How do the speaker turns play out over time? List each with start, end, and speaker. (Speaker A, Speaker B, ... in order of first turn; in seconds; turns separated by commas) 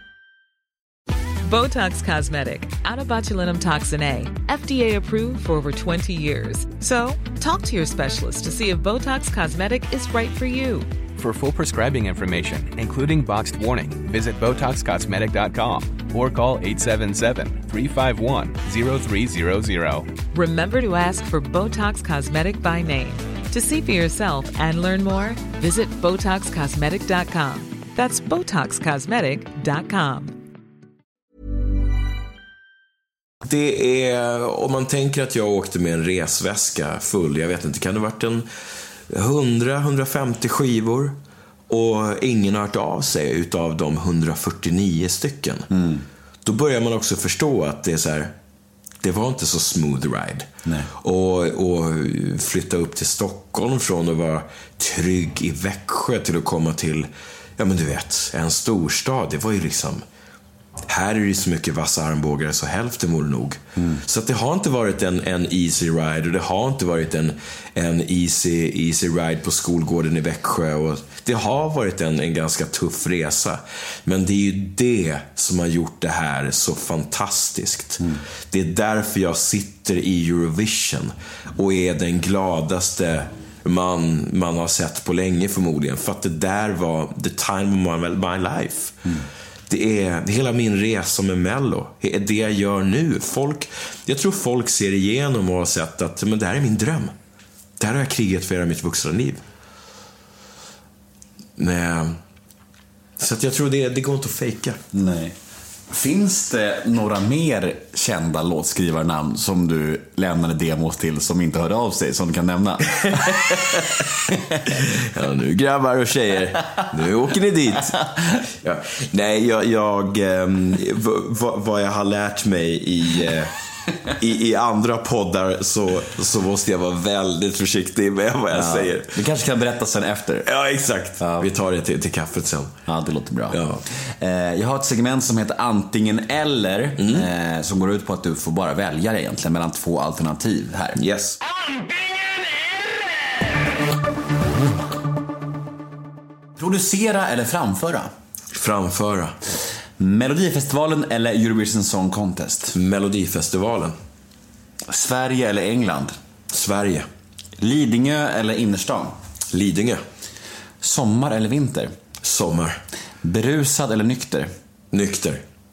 Speaker A: 1.4-10.9, Speaker B: 11.2-20.1, Speaker A: 20.3-30.4, Speaker C: 33.4-38.5, Speaker C: 39.1-41.2, Speaker C: 41.7-45.7, Speaker D: 45.7-46.0, Speaker C: 46.5-48.3, Speaker C: 49.0-60.0, Speaker D: 50.7-50.9, Speaker C: 60.9-89.1, Speaker C: 89.7-97.1, Speaker C: 97.8-99.4, Speaker C: 101.6-102.2, Speaker C: 103.2-104.8, Speaker D: 104.9-105.3, Speaker D: 105.9-113.8, Speaker C: 114.7-123.5, Speaker C: 124.2-129.1, Speaker D: 128.5-130.5, Speaker C: 130.4-132.8, Speaker D: 131.2-131.5, Speaker D: 132.9-141.0, Speaker C: 133.5-133.8, Speaker C: 137.0-137.3, Speaker C: 140.9-141.4, Speaker D: 146.6-148.1, Speaker C: 148.5-149.4, Speaker D: 150.0-152.8, Speaker C: 152.7-153.9, Speaker D: 154.9-156.2, Speaker C: 156.5-157.1, Speaker D: 157.6-159.1, Speaker C: 159.5-160.0, Speaker D: 160.8-161.9, Speaker C: 162.2-162.8, Speaker D: 163.2-164.5, Speaker C: 164.9-165.4